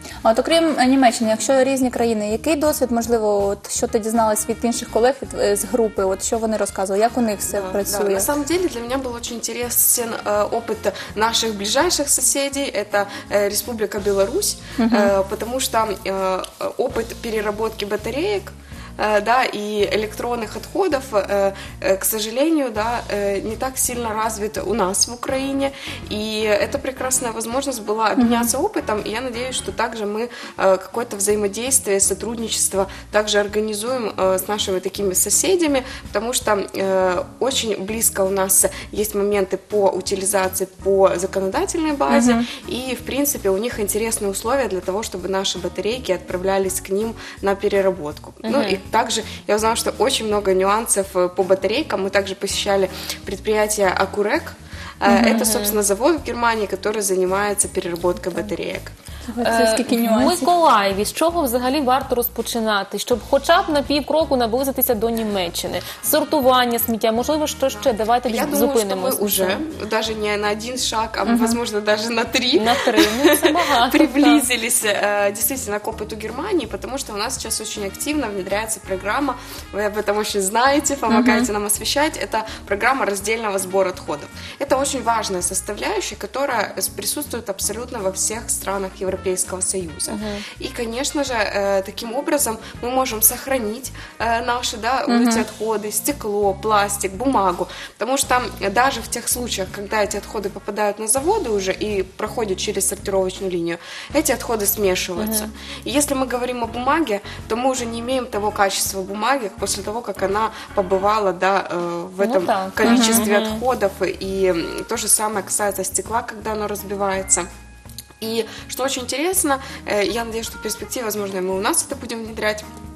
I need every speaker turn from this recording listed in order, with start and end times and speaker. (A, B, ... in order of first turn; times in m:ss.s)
0:00.2-0:08.3 A
0:07.5-0:58.9 B
0:14.8-0:15.1 A
0:28.2-0:28.5 A
0:42.1-0:42.5 A
0:48.4-0:48.8 C
0:55.1-0:55.5 A
0:55.2-0:55.8 C
0:59.3-1:00.5 A
0:59.4-1:09.6 C
1:07.7-1:57.5 B
1:11.2-1:11.6 A
1:12.6-1:14.5 C
1:21.1-1:21.5 A
1:30.1-1:30.4 C
1:35.1-1:35.4 A
1:45.2-1:45.5 C
1:52.2-1:53.6 C
1:52.9-1:53.2 A
1:58.2-2:02.6 B